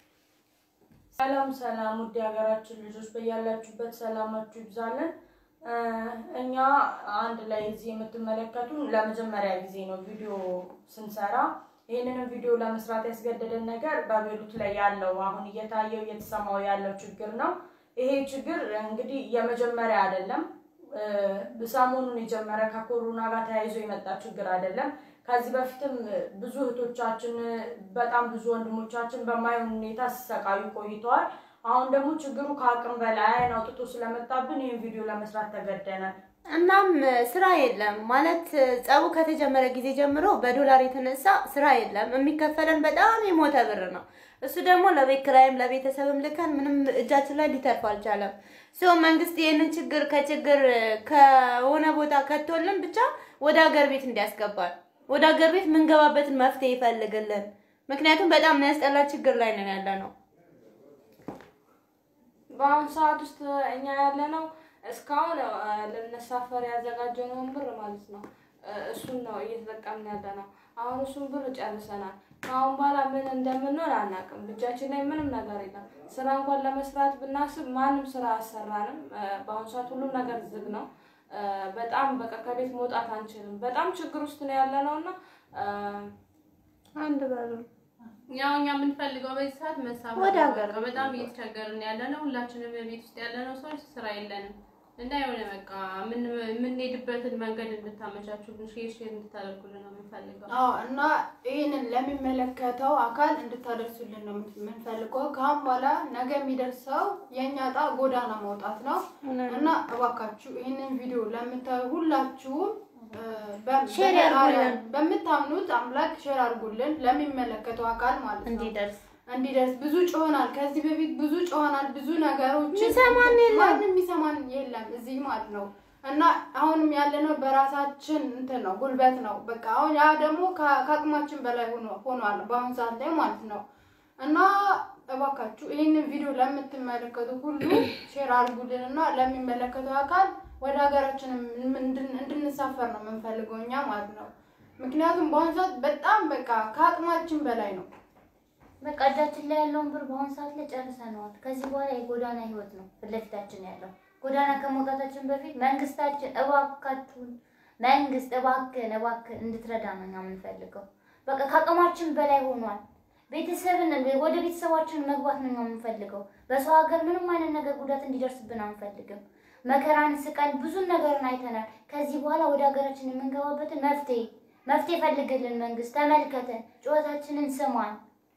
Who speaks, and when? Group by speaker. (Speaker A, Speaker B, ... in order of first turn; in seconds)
Speaker A: 1.1-5.1, 5.7-36.1
Speaker B: 36.5-60.1, 87.0-87.7, 90.2-91.2, 109.2-109.6, 113.9-114.8, 118.5-119.0, 122.7-123.8
Speaker C: 62.5-86.1
Speaker D: 88.3-100.5
Speaker E: 100.5-118.7, 119.3-133.6, 134.2-147.9
Speaker F: 148.8-178.0